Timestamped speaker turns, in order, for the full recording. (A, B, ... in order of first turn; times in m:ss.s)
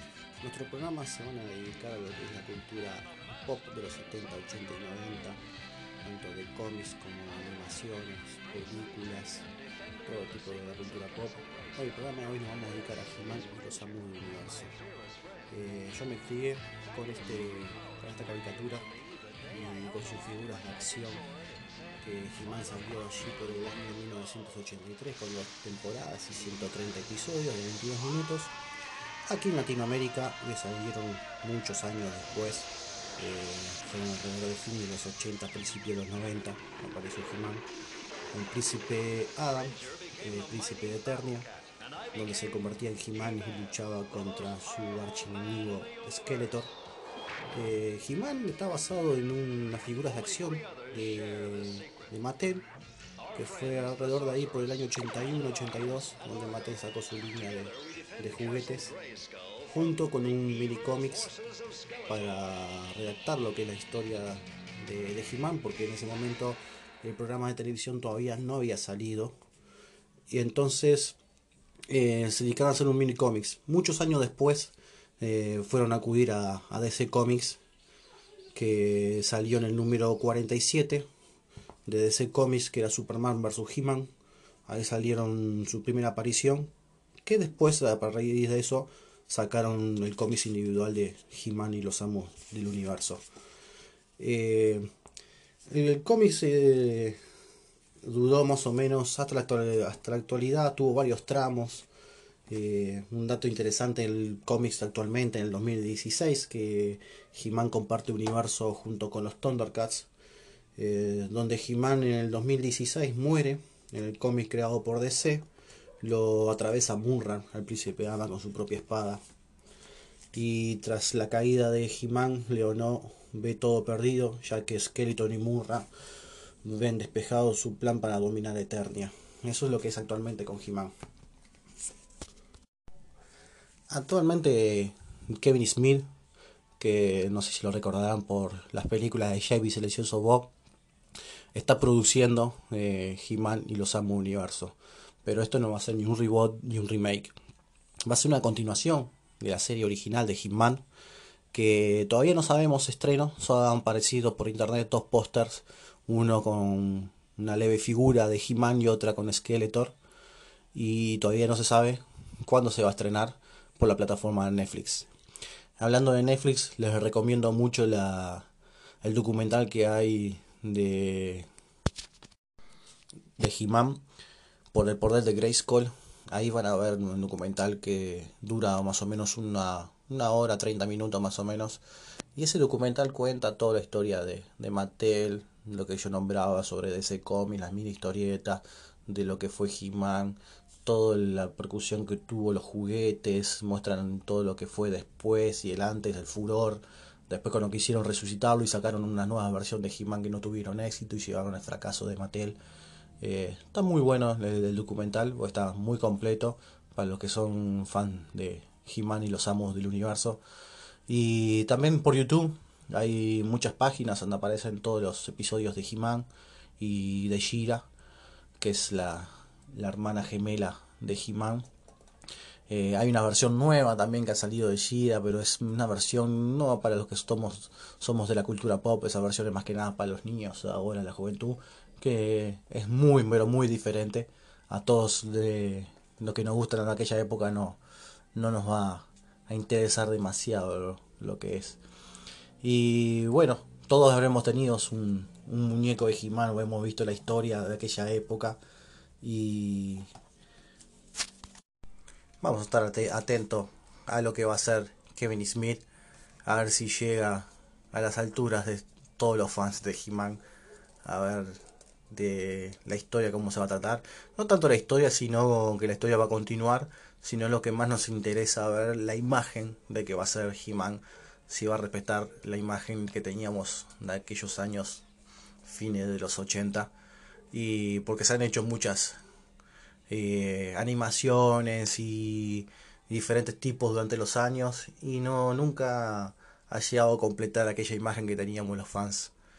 0:00.4-0:05.4 A
0:06.0-0:09.5 A
0:10.0-0:14.7 A
0:15.5-0:18.9 A
0:19.5-0:21.2 A
0:22.0-0:28.5 A
0:29.3-0:37.7 A
0:38.3-0:41.5 A
0:42.1-0:46.7 A
0:47.5-0:52.7 A
0:53.3-0:59.0 A
0:59.6-1:01.3 A
1:02.1-1:09.4 A
1:10.3-1:11.2 A
1:11.9-1:17.6 A
1:18.5-1:21.1 A
1:21.9-1:24.1 A
1:24.7-1:26.7 A
1:27.2-1:33.2 A
1:34.2-1:34.9 A
1:35.7-1:37.2 A
1:38.0-1:41.9 A
1:42.5-1:50.1 A
1:50.8-1:55.4 A
1:56.0-1:59.2 A
2:00.3-2:05.9 A
2:06.6-2:10.9 A
2:13.9-2:16.1 A
2:16.8-2:20.5 A
2:21.5-2:27.3 A
2:28.1-2:30.8 A
2:31.5-2:40.0 A
2:40.7-2:45.1 A
2:45.8-2:48.5 A
2:49.0-2:51.5 A
2:53.4-2:54.0 A
2:54.7-3:01.8 A
3:02.4-3:22.6 A
3:23.2-3:30.4 A
3:31.1-3:36.3 A
3:36.8-3:37.9 A
3:38.6-3:41.7 A
3:42.7-3:57.8 A
3:58.4-4:01.8 A
4:02.6-4:08.6 A
4:09.2-4:10.1 A
4:12.4-4:15.8 A
4:16.4-4:20.4 A
4:21.0-4:35.0 A
4:35.6-4:36.9 A
4:37.5-4:39.2 A
4:40.1-4:49.3 A